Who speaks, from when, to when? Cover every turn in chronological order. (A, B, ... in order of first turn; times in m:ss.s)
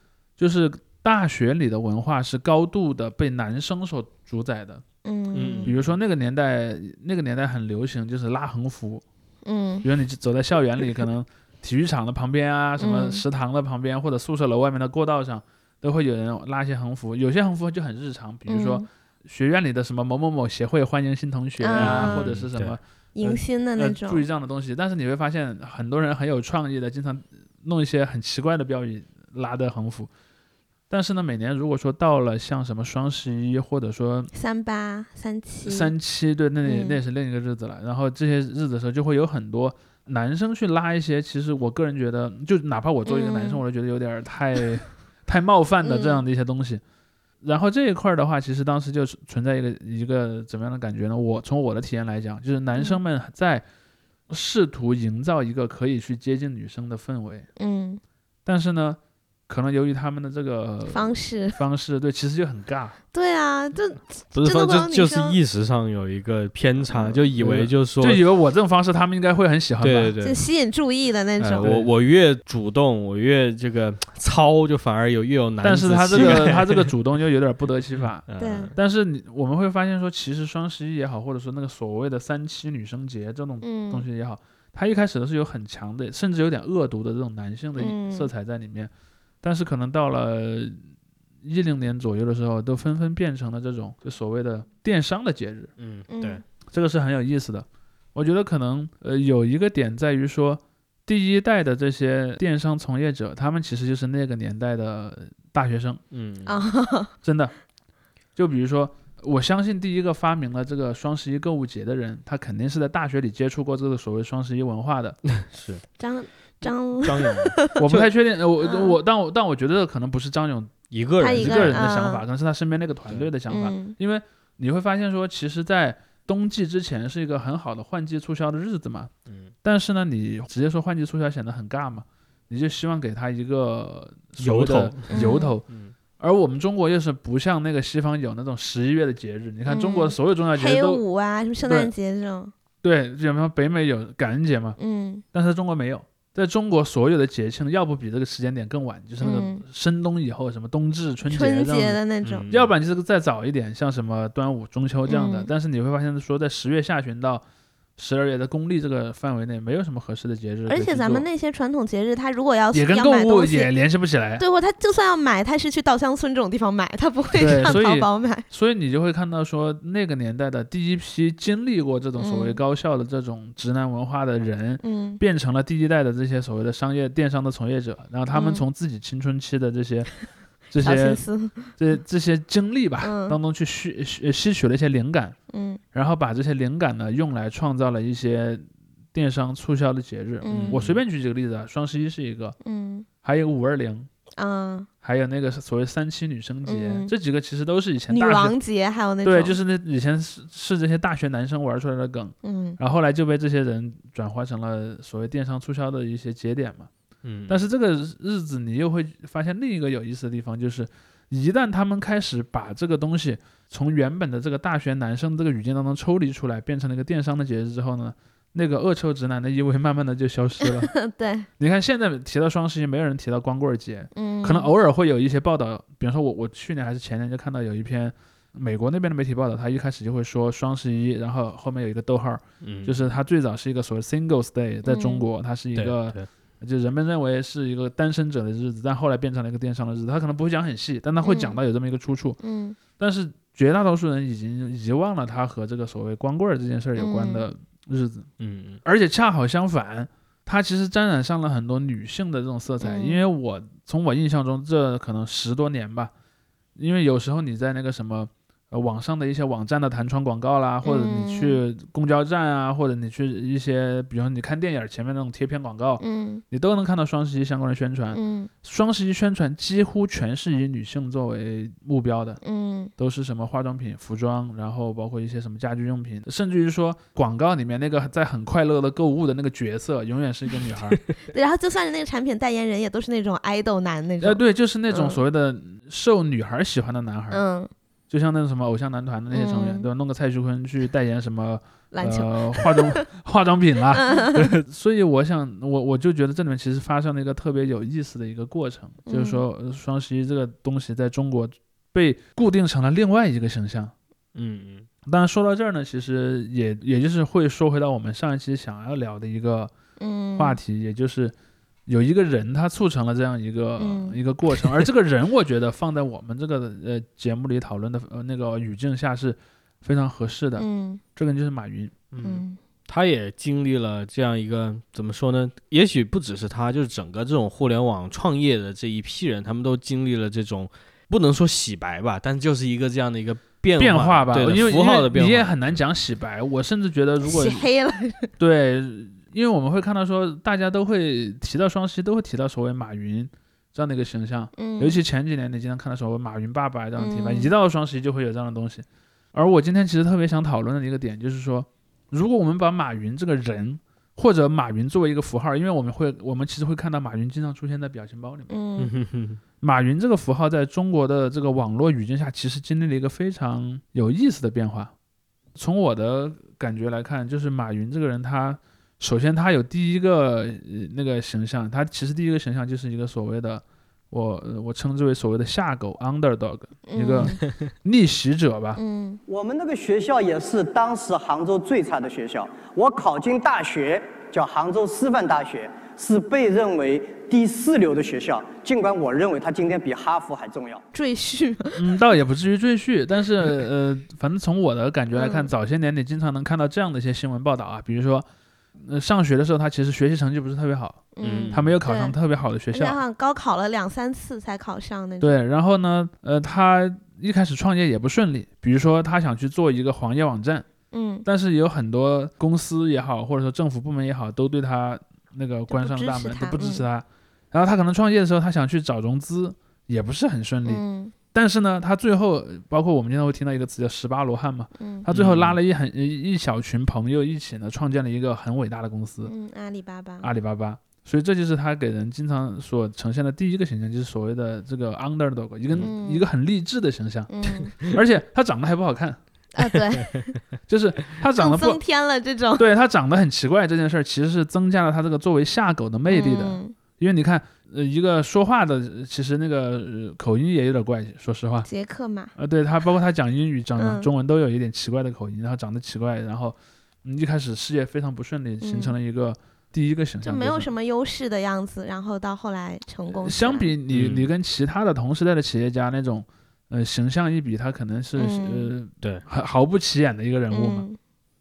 0:00.4-0:04.8 A
0:05.0-0:05.7 B
0:05.3-0:05.9 C
0:05.6-0:09.0 A
0:09.4-0:09.8 B
0:09.8-0:30.1 A
0:12.8-0:13.2 B
0:18.5-0:18.8 B
0:21.6-0:22.3 B
0:21.7-0:22.8 C
0:23.1-0:24.2 B
0:30.9-0:34.3 A
0:34.3-0:35.9 B
0:35.6-0:46.8 A
0:36.6-0:37.0 B
0:43.0-0:43.6 B
0:45.8-0:46.2 B
0:47.4-0:53.6 A
0:54.3-0:57.5 A
0:57.6-0:58.0 B
0:58.4-1:03.0 A
1:00.9-1:01.6 B
1:03.1-1:05.4 B
1:04.3-1:08.2 C
1:06.9-1:07.2 B
1:07.4-1:10.1 A
1:09.8-1:10.4 C
1:10.2-1:11.6 B
1:11.4-1:16.9 C
1:11.6-1:11.9 A
1:15.6-1:28.9 A
1:17.9-1:18.7 C
1:18.4-1:18.7 B
1:23.6-1:24.0 B
1:27.8-1:28.3 B
1:29.4-1:30.8 A
1:31.4-1:35.7 A
1:35.8-1:36.4 C
1:36.1-1:36.4 B
1:36.7-1:46.0 A
1:46.1-1:46.6 C
1:46.4-1:47.1 B
1:47.2-1:47.5 A
1:48.4-1:55.2 A
1:55.4-1:55.8 C
1:56.0-1:57.8 B
1:56.6-1:58.1 C
1:57.8-2:00.7 A
1:58.6-1:59.0 B
2:00.9-2:01.9 C
2:01.2-2:02.2 B
2:01.3-2:09.1 A
2:03.5-2:04.0 B
2:09.6-2:15.7 A
2:14.4-2:15.9 C
2:15.1-2:15.5 B
2:16.2-2:21.0 A
2:19.7-2:22.5 B
2:21.6-2:21.9 A
2:22.8-2:24.8 A
2:24.8-2:25.2 B
2:25.3-2:32.0 A
2:29.2-2:29.6 B
2:31.3-2:32.5 B
2:32.2-2:32.7 C
2:32.5-2:37.4 A
2:35.1-2:35.5 B
2:38.0-2:41.3 A
2:40.7-2:43.7 B
2:42.7-2:44.4 A
2:44.4-2:48.5 B
2:47.3-3:00.1 A
2:52.2-2:52.6 B
2:54.8-2:55.2 B
2:58.3-2:58.6 B
3:00.7-3:05.4 A
3:00.8-3:01.8 B
3:03.0-3:03.4 B
3:05.5-3:05.8 B
3:05.9-3:12.6 A
3:10.4-3:10.8 B
3:10.5-3:11.0 C
3:12.6-3:13.0 B
3:13.2-3:14.1 A
3:14.4-3:14.9 B
3:15.0-3:18.6 A
3:16.6-3:17.1 B
3:18.1-3:19.6 B
3:19.2-3:26.9 A
3:22.4-3:22.8 B
3:27.2-3:27.6 C
3:27.5-3:41.0 A
3:40.8-3:41.5 B
3:41.6-4:02.4 A
3:44.1-3:44.7 B
3:52.6-3:53.1 C
3:54.8-3:55.2 B
3:55.8-3:56.3 C
4:01.2-4:01.6 B
4:02.4-4:02.8 B
4:03.0-4:08.3 A
4:07.0-4:07.4 B
4:08.4-4:08.8 C
4:08.8-4:16.1 A
4:12.8-4:13.2 B
4:16.8-4:32.4 A
4:20.8-4:21.6 B
4:26.0-4:26.4 B
4:28.1-4:28.5 B
4:32.4-4:32.9 B
4:33.0-4:41.0 A
4:41.2-4:45.2 B
4:44.2-4:47.4 A
4:47.3-4:47.7 B
4:48.1-5:03.9 A
4:49.3-4:49.9 B
4:51.9-4:53.0 B
4:53.9-4:54.4 B
4:59.1-4:59.4 B
5:04.3-5:04.9 C
5:05.0-5:09.7 A
5:10.0-5:10.6 B
5:10.4-5:11.3 A
5:11.9-5:22.1 A
5:13.8-5:14.2 B
5:20.6-5:21.0 B
5:22.1-5:35.8 C
5:22.2-5:22.6 B
5:33.8-5:37.6 A
5:37.2-5:38.3 B
5:38.4-5:58.5 A
5:44.6-5:45.0 B
5:47.0-5:47.5 B
5:58.5-5:58.9 B
5:58.8-5:59.4 C
5:59.6-6:04.9 A
6:05.6-6:18.8 A
6:16.9-6:17.4 B
6:18.8-6:19.2 B
6:19.3-6:30.8 D
6:30.9-6:31.9 B
6:31.8-6:38.2 A
6:35.1-6:35.5 B
6:38.8-6:43.0 A
6:41.2-6:42.2 B
6:41.2-6:41.8 C
6:42.7-6:45.4 B
6:45.2-6:50.6 A
6:50.9-6:51.2 B
6:51.2-7:00.8 A
6:55.7-6:56.8 B
7:00.6-7:01.1 B
7:01.3-7:09.3 A
7:04.8-7:05.0 B
7:05.1-7:05.6 C
7:09.2-7:10.3 B
7:10.2-7:17.3 A
7:15.8-7:16.2 B
7:17.3-7:17.8 B
7:17.8-7:19.2 A
7:19.5-7:20.3 B
7:19.9-7:20.3 C
7:20.7-7:21.8 A
7:21.4-7:22.7 B
7:22.6-7:31.7 A
7:26.1-7:26.7 B
7:31.6-7:32.3 B
7:32.4-7:40.7 A
7:33.8-7:34.1 B
7:38.6-7:38.9 B
7:40.2-7:43.7 B
7:43.1-7:50.8 A
7:43.9-7:44.3 C
7:48.2-7:48.7 B
7:50.5-7:51.0 B